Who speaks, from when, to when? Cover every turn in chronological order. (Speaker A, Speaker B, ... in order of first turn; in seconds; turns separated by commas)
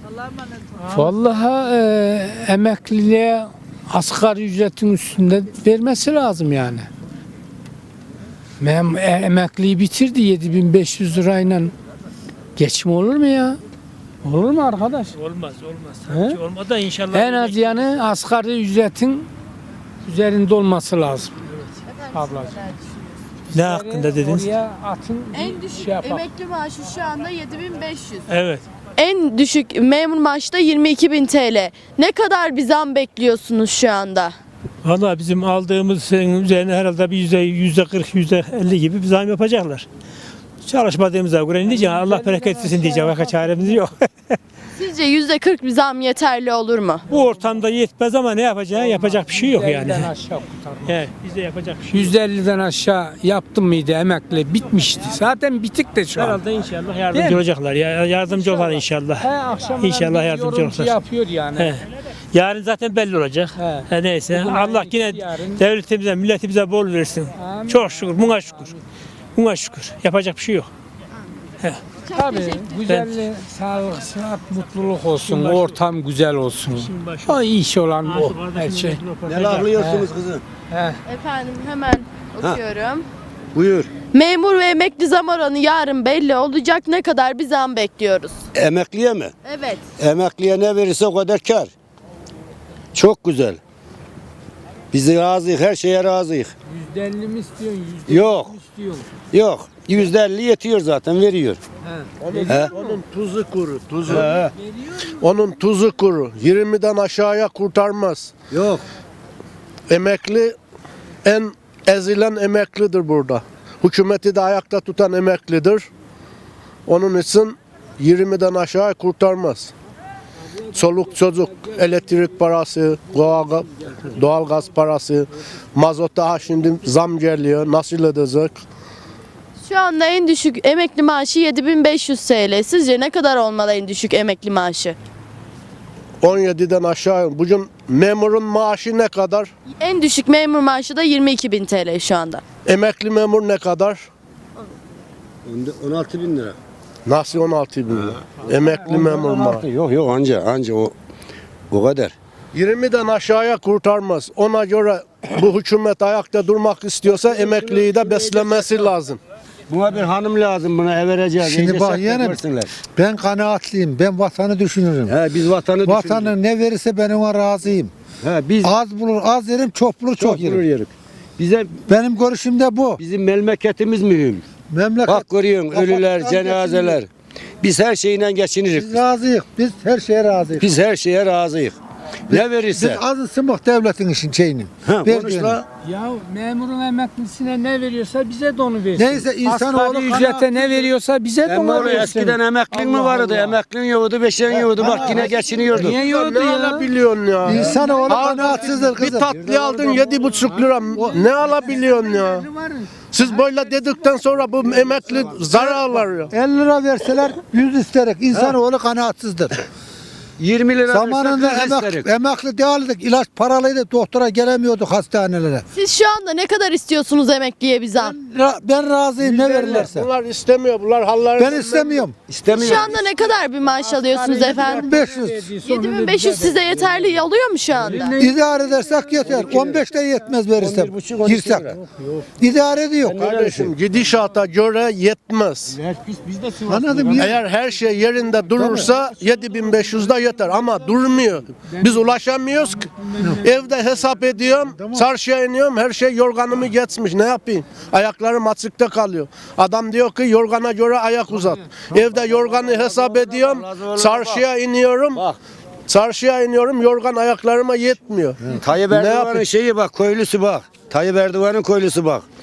Speaker A: 0.8-6.9, Speaker A: 8.6-11.7, Speaker A: 12.6-13.6, Speaker A: 14.2-15.2, Speaker B: 15.1-17.8, Speaker A: 16.1-16.4, Speaker A: 17.1-19.3, Speaker A: 20.1-21.3, Speaker A: 22.1-22.7, Speaker A: 23.5-26.3, Speaker B: 23.5-24.5, Speaker C: 25.3-28.3, Speaker B: 28.3-28.6, Speaker C: 29.0-34.4, Speaker B: 34.8-39.9, Speaker B: 40.6-44.0, Speaker A: 41.7-43.7, Speaker C: 44.7-47.0, Speaker B: 47.1-50.1, Speaker A: 48.8-51.0, Speaker B: 50.9-52.1, Speaker A: 51.9-56.5, Speaker B: 56.2-60.9, Speaker A: 57.1-57.4, Speaker A: 58.3-61.7, Speaker B: 61.6-68.8, Speaker A: 63.5-65.6, Speaker A: 67.4-68.1, Speaker B: 69.3-70.7, Speaker C: 72.0-72.8, Speaker A: 72.1-79.0, Speaker D: 79.2-80.4, Speaker A: 79.7-80.1, Speaker A: 80.7-81.0, Speaker C: 81.0-83.1, Speaker D: 83.5-83.9, Speaker C: 84.1-88.4, Speaker D: 88.5-89.3, Speaker C: 89.4-89.9, Speaker D: 90.0-91.7, Speaker D: 92.9-93.6, Speaker D: 94.9-96.5, Speaker A: 96.7-99.1, Speaker D: 98.1-98.5, Speaker D: 99.3-101.6, Speaker A: 101.9-103.0, Speaker E: 102.2-104.3, Speaker D: 104.1-104.5, Speaker E: 105.2-108.3, Speaker D: 108.5-108.8, Speaker E: 109.9-110.6, Speaker E: 111.2-115.9, Speaker E: 116.9-119.7, Speaker E: 120.7-128.6, Speaker C: 129.6-135.0, Speaker E: 136.2-139.5, Speaker C: 139.8-142.4, Speaker E: 142.7-144.1, Speaker D: 145.5-146.6, Speaker E: 147.1-149.7, Speaker D: 148.9-150.9, Speaker D: 151.7-152.1, Speaker E: 152.5-159.2, Speaker D: 157.1-158.6, Speaker D: 159.7-162.7, Speaker F: 161.5-162.4, Speaker F: 162.9-165.1, Speaker D: 165.1-166.4, Speaker F: 165.8-167.9, Speaker D: 168.2-168.8, Speaker F: 168.6-170.6, Speaker D: 170.2-171.8, Speaker F: 171.9-173.0, Speaker D: 173.0-174.4, Speaker F: 174.7-176.9, Speaker D: 175.0-177.1, Speaker D: 177.6-179.1, Speaker F: 178.8-180.7, Speaker D: 180.6-181.8, Speaker D: 182.3-183.0, Speaker F: 182.7-185.5, Speaker D: 184.8-185.6, Speaker A: 185.9-193.5, Speaker F: 189.0-190.6, Speaker D: 191.4-196.0, Speaker A: 195.7-196.9, Speaker E: 195.8-202.5, Speaker F: 197.5-199.2, Speaker A: 197.7-198.1, Speaker A: 200.9-203.8, Speaker E: 203.1-206.3, Speaker F: 206.3-209.5, Speaker D: 210.4-212.1, Speaker F: 210.9-215.6, Speaker C: 215.7-218.2, Speaker F: 218.0-220.1, Speaker E: 219.2-222.0, Speaker F: 221.4-222.1, Speaker D: 222.3-223.0, Speaker C: 222.6-225.0, Speaker A: 223.9-226.6, Speaker F: 224.9-225.4, Speaker C: 225.6-228.2, Speaker A: 227.8-228.3, Speaker F: 228.2-231.6, Speaker D: 229.2-229.8, Speaker D: 230.6-232.2, Speaker F: 232.4-233.2, Speaker D: 233.0-233.7, Speaker E: 233.2-235.8, Speaker D: 235.8-237.2, Speaker F: 236.7-237.3, Speaker E: 237.0-255.3, Speaker D: 253.4-254.4, Speaker E: 255.9-259.5, Speaker D: 258.6-262.2